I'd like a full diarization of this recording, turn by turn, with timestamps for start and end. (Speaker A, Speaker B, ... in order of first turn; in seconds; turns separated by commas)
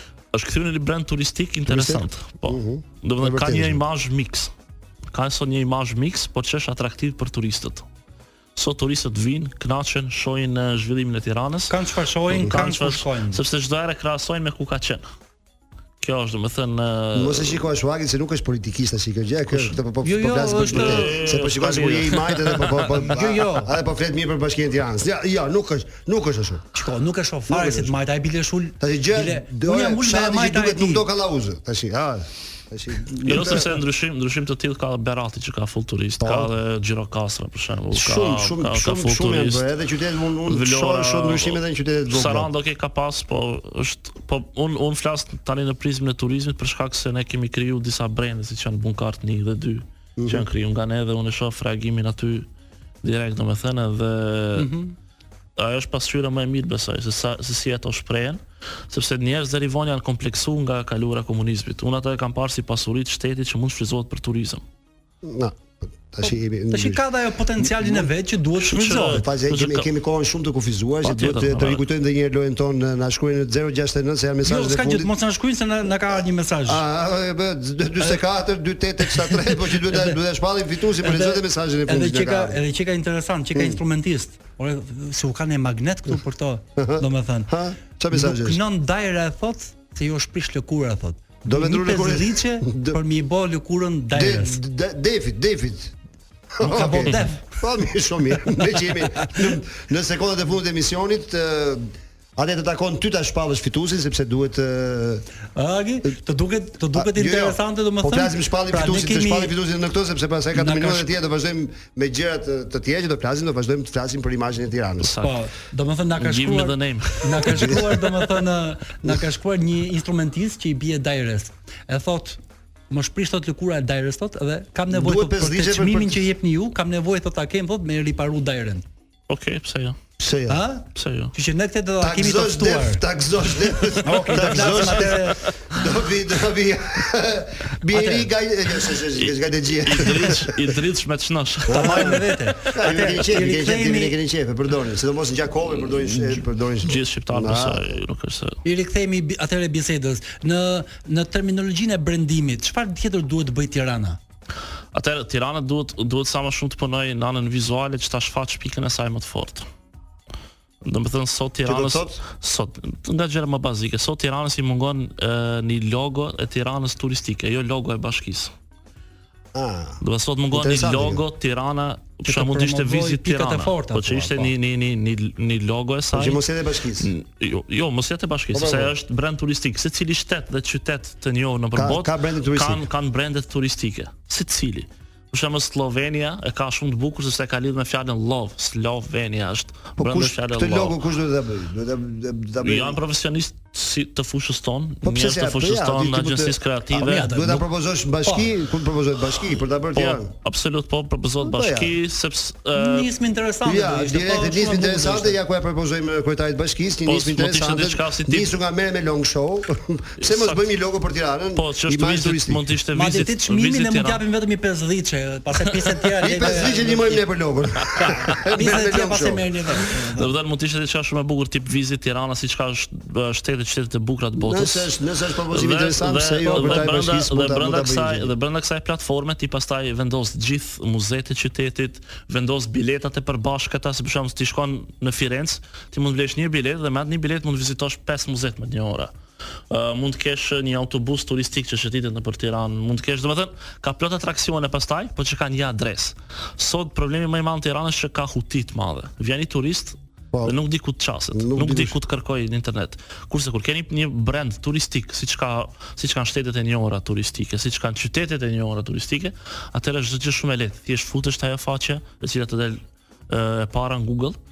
Speaker A: 0.3-4.5, Speaker B: 1.7-3.8, Speaker A: 5.1-7.8, Speaker A: 8.6-11.8, Speaker C: 11.7-13.4, Speaker A: 12.3-15.0, Speaker A: 16.0-17.6, Speaker B: 17.1-26.6, Speaker A: 19.5-19.8, Speaker C: 20.0-21.1, Speaker A: 20.7-23.0, Speaker C: 22.9-23.7, Speaker C: 26.7-31.1, Speaker B: 27.5-27.9, Speaker B: 28.8-33.7, Speaker A: 33.2-39.7, Speaker B: 36.2-36.5, Speaker B: 37.9-42.5, Speaker A: 40.5-52.5, Speaker B: 50.2-50.5, Speaker A: 53.0-54.7, Speaker C: 54.5-54.9, Speaker A: 55.6-64.6, Speaker B: 65.2-67.0, Speaker C: 66.2-69.2, Speaker B: 67.6-68.1, Speaker A: 68.6-69.9, Speaker B: 69.1-75.1, Speaker A: 71.0-71.8, Speaker C: 74.4-76.8, Speaker B: 76.7-82.6, Speaker C: 79.0-80.2, Speaker C: 81.0-87.5, Speaker B: 86.8-88.6, Speaker C: 88.1-94.6, Speaker B: 91.5-93.0, Speaker B: 94.1-96.0, Speaker B: 96.6-105.2, Speaker C: 96.6-97.6, Speaker C: 98.5-99.4, Speaker C: 105.5-109.5, Speaker B: 106.9-115.2, Speaker C: 110.5-111.1, Speaker A: 115.0-115.4, Speaker C: 115.2-122.4, Speaker A: 116.2-118.0, Speaker B: 117.5-117.8, Speaker C: 122.9-128.8, Speaker B: 124.9-126.2, Speaker A: 129.3-129.9, Speaker B: 130.2-130.6, Speaker C: 130.5-133.0, Speaker A: 130.9-131.3, Speaker B: 132.0-140.7, Speaker C: 134.0-135.4, Speaker A: 134.6-134.8, Speaker C: 137.9-138.3, Speaker A: 139.1-142.8, Speaker B: 141.7-147.9, Speaker C: 141.7-144.2, Speaker A: 145.9-148.6, Speaker C: 148.6-154.2, Speaker A: 154.9-159.7, Speaker A: 160.8-168.5, Speaker B: 161.6-162.2, Speaker B: 169.5-171.2, Speaker A: 170.0-176.4, Speaker C: 172.2-174.5, Speaker B: 176.1-177.1, Speaker A: 177.0-191.0, Speaker B: 178.5-178.9, Speaker B: 181.7-182.8, Speaker B: 190.0-193.0, Speaker A: 192.6-197.3, Speaker B: 195.0-200.3, Speaker C: 196.9-197.7, Speaker A: 199.9-203.1, Speaker B: 201.4-201.9, Speaker C: 202.8-205.4, Speaker B: 203.6-212.6, Speaker A: 207.1-208.5, Speaker A: 210.2-210.6, Speaker A: 211.5-214.2, Speaker C: 212.9-217.2, Speaker B: 216.2-219.4, Speaker A: 217.8-218.2, Speaker C: 218.5-220.3, Speaker A: 220.2-224.9, Speaker B: 224.4-228.3, Speaker A: 225.5-239.1, Speaker A: 239.7-264.4, Speaker B: 251.3-251.9